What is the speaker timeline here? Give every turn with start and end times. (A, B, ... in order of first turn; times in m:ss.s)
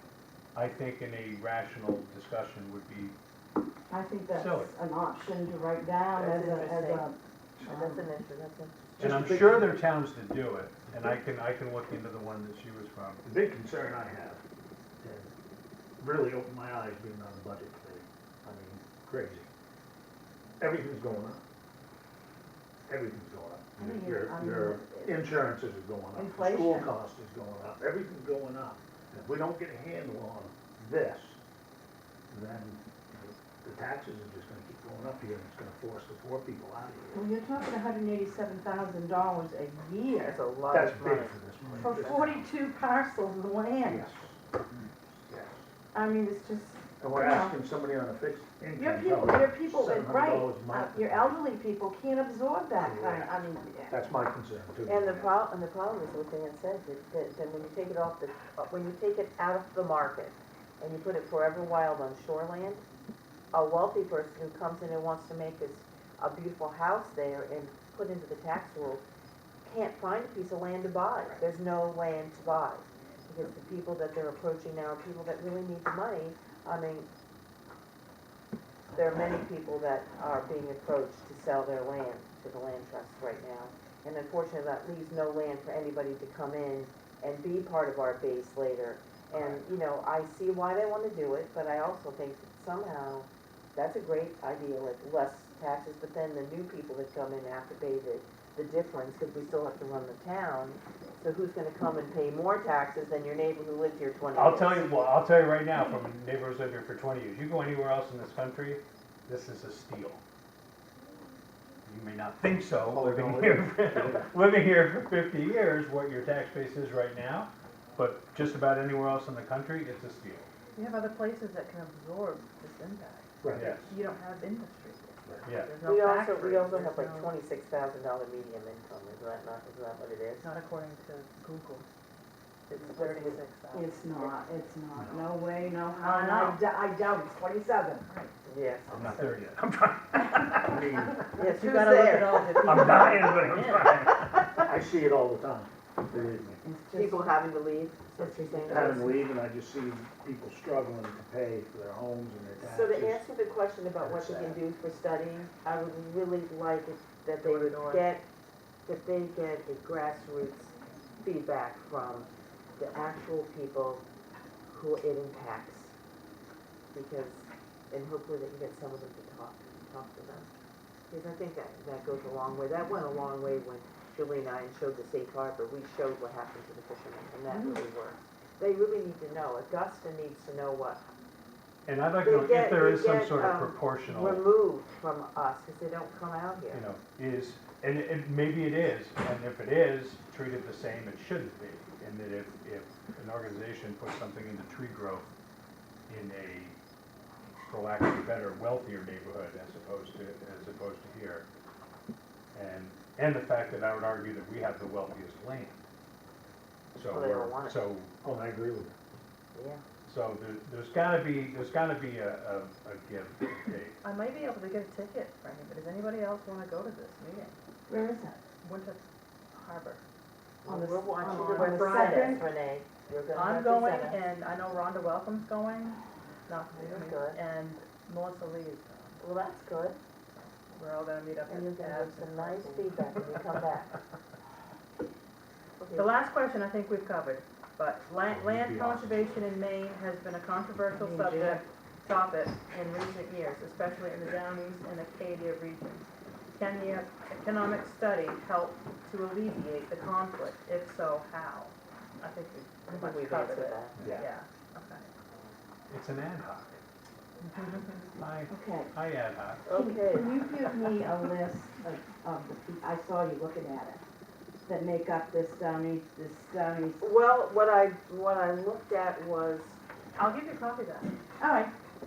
0:00.5-0:03.1 A
0:03.9-0:08.0 B
0:04.3-0:04.7 A
0:06.1-0:07.1 C
0:07.6-0:08.7 C
0:09.0-0:09.8 D
0:09.0-0:13.2 A
0:13.2-0:14.4 D
0:15.0-0:15.3 D
0:16.0-0:19.5 D
0:20.6-0:21.4 D
0:22.9-0:31.4 D
0:23.8-0:25.4 B
0:26.1-0:26.9 B
0:32.3-0:37.2 D
0:37.1-0:40.4 B
0:40.2-0:41.4 C
0:40.7-0:42.4 D
0:41.8-0:44.1 B
0:43.8-0:44.4 D
0:45.3-0:45.6 D
0:45.9-0:47.6 B
0:47.0-0:51.3 D
0:48.7-0:54.0 B
0:52.8-0:53.3 D
0:53.9-0:55.3 D
0:54.8-1:02.8 C
1:03.5-1:09.0 C
1:09.6-1:17.1 C
1:18.9-1:45.0 C
1:44.3-1:50.2 A
1:51.8-2:00.5 A
1:52.9-1:54.3 D
2:00.8-2:07.3 E
2:03.4-2:03.9 D
2:03.5-2:03.9 A
2:05.4-2:05.7 A
2:05.8-2:10.4 C
2:10.4-2:11.9 E
2:12.7-2:14.1 E
2:12.7-2:13.4 C
2:13.7-2:18.1 B
2:15.9-2:16.6 E
2:18.1-2:18.3 E
2:18.4-2:19.2 C
2:18.9-2:21.3 D
2:18.9-2:19.8 A
2:21.3-2:24.6 C
2:21.4-2:23.9 E
2:22.5-2:26.6 D
2:26.6-2:27.4 B
2:26.9-2:29.2 C
2:28.2-2:29.2 B
2:28.6-2:33.2 D
2:32.6-2:38.2 C
2:34.0-2:34.6 D
2:37.4-2:38.1 E
2:38.8-2:44.0 C
2:44.7-2:45.9 C
2:46.9-2:50.5 C
2:51.1-3:01.0 C
2:57.5-2:57.8 B
3:01.8-3:04.4 A
3:02.2-3:06.8 C
3:06.7-3:15.3 A
3:16.1-3:16.8 A
3:17.5-3:21.4 A
3:22.5-3:25.8 A
3:26.9-3:28.1 A
3:27.1-3:27.8 C
3:28.2-3:29.0 D
3:29.5-3:29.8 C
3:30.0-3:34.0 A
3:34.0-3:37.6 E
3:37.9-3:38.4 B
3:38.6-3:39.0 E
3:39.5-3:40.0 E
3:40.6-3:44.2 C
3:40.6-3:42.4 B
3:41.2-3:42.4 E
3:43.3-3:49.2 E
3:46.7-3:47.4 C
3:49.2-3:50.0 C
3:50.3-3:53.2 E
3:51.5-3:54.0 C
3:55.8-3:56.1 C
3:55.9-4:15.1 E
3:58.3-3:59.3 D
4:00.9-4:01.6 B
4:12.9-4:13.9 C
4:14.0-4:14.3 A
4:15.9-4:16.8 A
4:17.4-4:18.0 E
4:18.2-4:19.7 A
4:18.5-4:18.9 B
4:19.6-4:20.4 C
4:19.7-4:24.0 B
4:24.6-4:27.1 B
4:27.0-4:29.8 C
4:30.2-4:31.2 E
4:31.4-4:31.7 B